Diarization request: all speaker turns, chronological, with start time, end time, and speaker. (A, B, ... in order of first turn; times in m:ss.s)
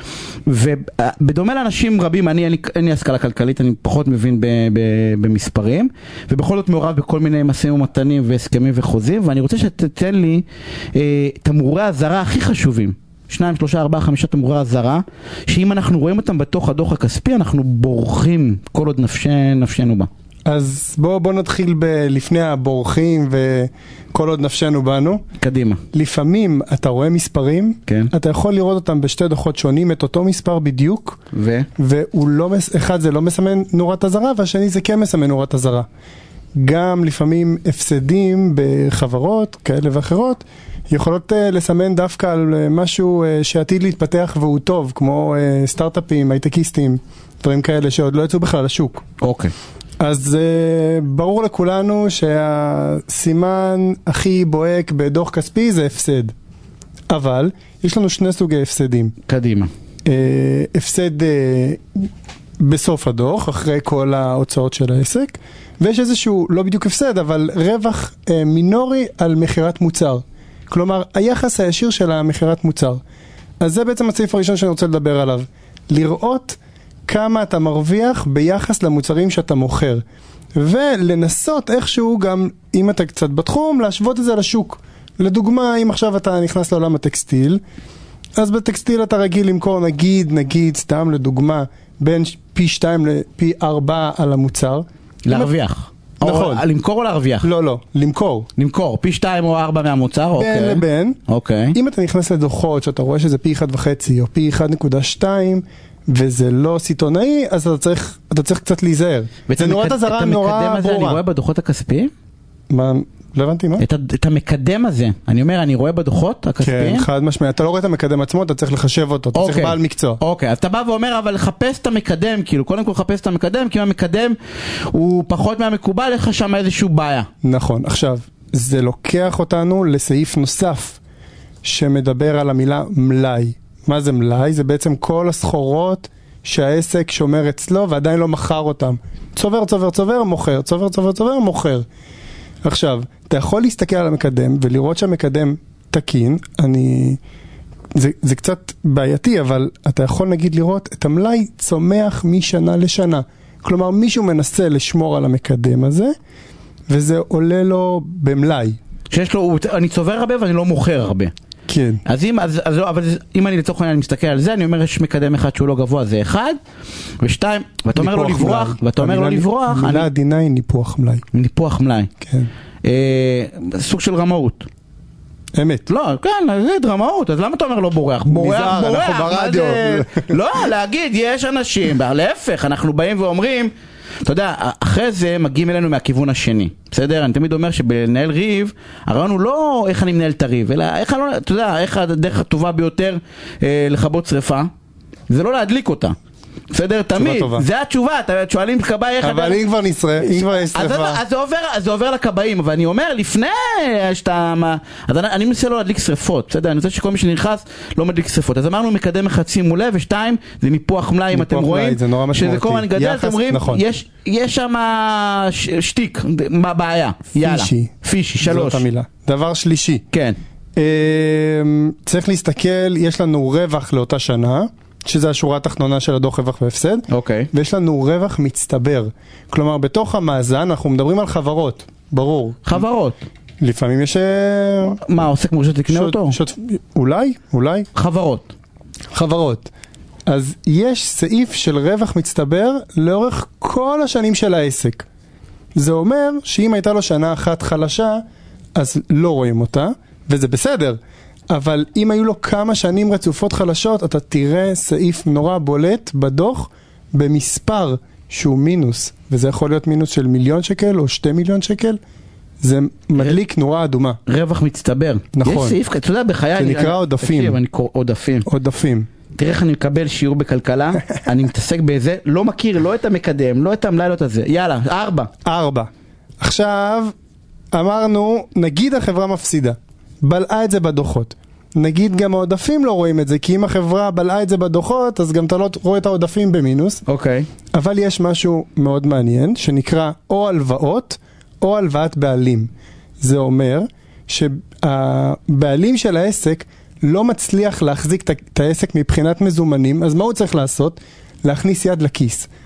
0:00.5-0:20.1 A
0:20.5-0:25.2 B
0:25.4-0:25.8 A
0:25.9-0:31.2 B
0:27.9-0:28.1 A
0:31.3-0:31.7 A
0:31.8-0:35.8 B
0:36.5-0:49.0 B
0:49.2-0:49.5 A
0:50.0-0:56.3 B
0:57.1-0:59.1 B
0:59.3-0:59.7 A
1:00.0-1:02.1 B
1:02.6-1:13.0 B
1:13.6-1:20.0 B
1:20.6-1:27.6 B
1:28.4-1:35.5 B
1:35.2-1:37.5 A
1:36.2-1:36.6 B
1:37.4-1:38.5 B
1:38.6-1:41.8 A
1:40.4-1:41.2 B
1:41.7-1:51.2 B
1:49.5-1:52.1 A
1:52.7-1:53.8 B
1:53.8-1:57.0 A
1:56.6-2:00.2 B
1:59.3-2:04.4 A
2:04.9-2:07.3 A
2:07.4-2:11.0 B
2:11.6-2:21.8 B
2:22.6-2:27.2 B
2:27.9-2:36.1 B
2:36.9-2:38.8 B
2:39.1-2:41.3 A
2:41.7-2:42.0 B
2:42.0-2:46.6 A
2:47.2-2:50.1 A
2:47.9-2:51.2 B
2:51.3-2:52.1 A
2:52.2-2:52.5 B
2:52.8-2:54.7 A
2:55.5-2:55.9 B
2:55.9-3:03.7 A
2:58.3-3:00.4 B
3:04.2-3:14.7 A
3:15.3-3:16.1 A
3:16.7-3:19.6 A
3:17.1-3:17.6 B
3:19.2-3:21.2 B
3:20.2-3:38.8 A
3:31.3-3:33.8 B
3:37.4-3:40.0 B
3:40.1-3:40.4 A
3:40.8-3:52.8 B
3:47.1-3:47.5 A
3:52.6-3:53.2 A
3:53.6-3:55.0 B
3:55.0-3:56.4 A
3:55.9-3:57.9 B
3:57.9-3:58.5 A
3:59.1-3:59.7 B
4:00.3-4:05.0 B
4:05.8-4:08.2 B
4:08.7-4:11.0 B
4:11.5-4:22.0 B
4:22.6-4:24.2 B
4:24.3-4:28.5 A
4:25.3-4:25.8 B
4:26.6-4:27.6 B
4:28.4-4:29.1 B
4:29.4-4:35.3 A
4:35.4-4:37.1 B
4:37.7-4:47.0 B
4:47.1-4:47.5 A
4:47.7-4:52.7 B
4:53.2-5:02.5 B